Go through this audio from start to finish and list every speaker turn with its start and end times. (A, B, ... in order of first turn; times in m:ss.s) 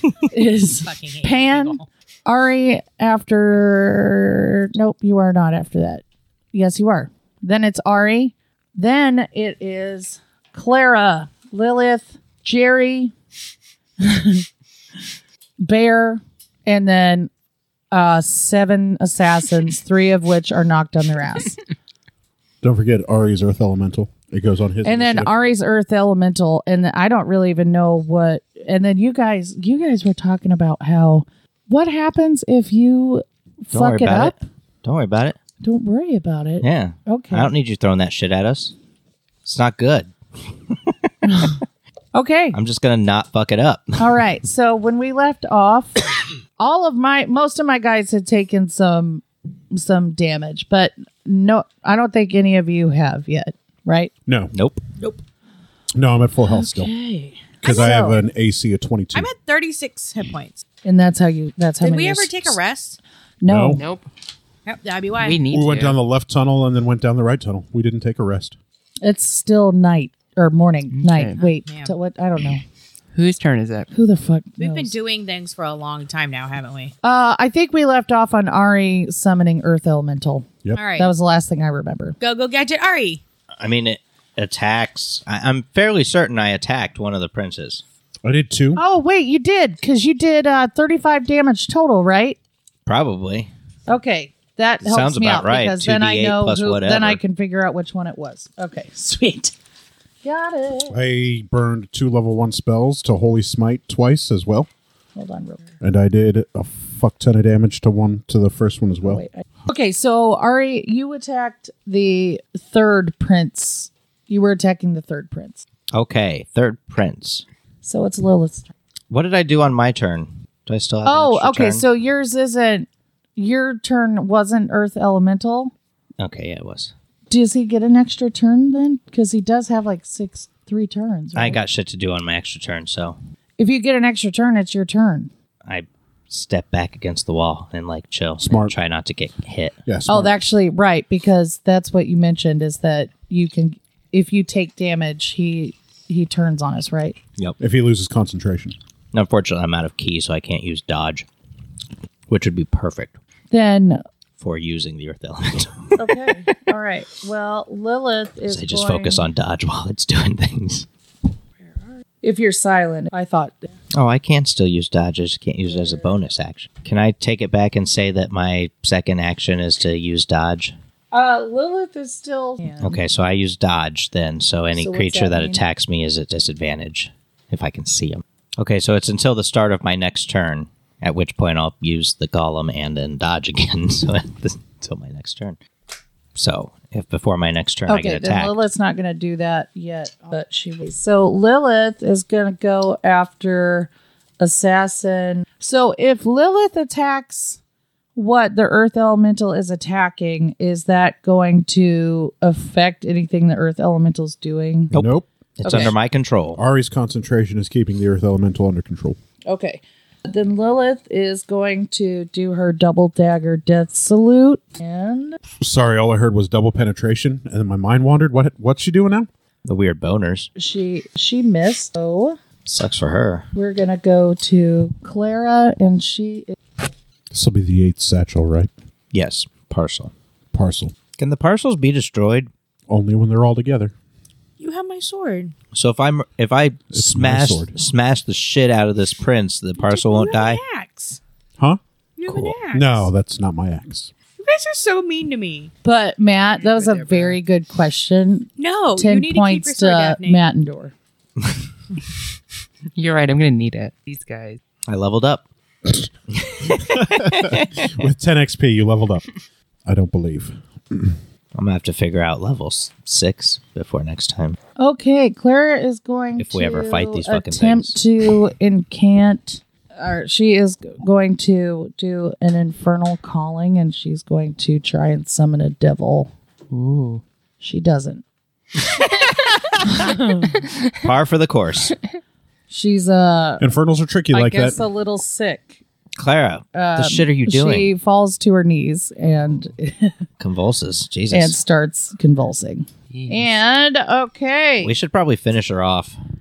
0:00.2-0:13.1 A
0:00.8-0:01.8 B
0:14.0-0:14.4 A
0:15.6-0:17.3 A
0:17.9-0:21.6 A
0:22.6-0:25.3 C
0:24.8-0:34.4 A
0:33.7-0:35.4 D
0:35.6-0:37.5 A
0:36.6-0:38.7 D
0:39.4-0:40.9 D
0:41.2-0:41.6 A
0:42.1-0:42.6 A
0:42.5-0:44.2 D
0:44.0-0:54.1 A
0:54.3-0:54.5 C
0:54.5-0:54.8 D
0:55.9-0:56.9 C
0:56.4-0:58.2 A
0:57.6-0:59.3 C
0:59.1-1:00.6 B
1:00.8-1:02.6 A
1:01.8-1:03.0 B
1:03.4-1:03.8 A
1:03.5-1:03.8 C
1:03.8-1:04.1 E
1:04.6-1:05.4 B
1:05.2-1:06.0 E
1:05.5-1:08.6 C
1:09.0-1:12.6 A
1:10.9-1:11.4 E
1:11.4-1:11.9 B
1:13.1-1:13.9 E
1:13.9-1:15.0 A
1:14.6-1:16.9 B
1:17.0-1:22.2 A
1:20.7-1:21.1 B
1:22.2-1:23.2 B
1:23.6-1:27.8 D
1:28.2-1:28.8 C
1:28.8-1:32.4 A
1:32.8-1:33.5 D
1:33.9-1:39.5 A
1:34.8-1:37.2 D
1:40.2-1:41.0 A
1:40.9-1:44.7 C
1:45.1-1:45.7 A
1:45.8-1:49.2 C
1:49.0-1:55.6 A
1:55.9-1:57.4 D
1:57.8-1:58.7 A
1:59.1-2:01.8 D
2:01.0-2:05.7 A
2:06.2-2:06.9 D
2:07.3-2:11.6 A
2:11.3-2:13.2 D
2:13.6-2:15.3 A
2:15.6-2:19.8 D
2:18.4-2:18.7 C
2:19.8-2:20.3 C
2:20.1-2:27.2 A
2:27.6-2:28.8 C
2:29.1-2:31.3 D
2:32.3-2:33.2 D
2:33.5-2:34.0 A
2:34.4-2:36.0 D
2:35.9-2:39.2 A
2:38.5-2:40.9 D
2:42.2-2:43.7 A
2:43.9-2:50.8 D
2:45.7-2:46.1 A
2:51.1-2:53.0 A
2:52.8-3:05.6 D
2:54.8-2:55.6 A
3:06.3-3:08.6 D
3:07.9-3:17.6 A
3:18.1-3:24.9 A
3:24.9-3:26.6 D
3:24.9-3:25.9 C
3:25.6-3:25.9 A
3:26.5-3:29.2 C
3:29.5-3:35.4 A
3:35.6-3:39.3 C
3:39.6-3:40.5 D
3:40.6-3:42.4 A
3:42.6-3:43.5 D
3:43.5-3:46.6 A
3:47.3-3:48.7 C
3:49.1-3:50.1 D
3:50.5-3:50.9 C
3:51.2-3:52.5 D
3:52.9-3:53.9 C
3:54.6-3:55.5 B
3:55.7-4:00.6 D
3:56.9-3:57.7 C
3:59.8-4:01.2 B
4:02.2-4:03.0 B
4:02.2-4:02.6 D
4:02.7-4:04.1 C
4:04.4-4:05.7 B
4:05.8-4:10.9 A
4:06.7-4:07.4 E
4:08.6-4:10.4 B
4:12.9-4:14.6 E
4:14.9-4:15.5 D
4:16.3-4:18.0 D
4:16.8-4:19.2 C
4:19.8-4:21.2 C
4:21.5-4:24.6 D
4:24.8-4:36.3 A
4:26.4-4:28.0 D
4:36.7-4:37.2 E
4:37.6-4:38.2 A
4:40.0-4:40.3 A
4:41.0-4:42.0 D
4:42.7-4:43.6 A
4:43.6-4:44.8 C
4:44.3-4:45.8 A
4:46.2-4:47.9 D
4:46.7-4:50.2 A
4:50.4-4:51.6 D
4:51.3-4:54.9 A
4:53.1-4:53.4 E
4:54.8-4:56.2 D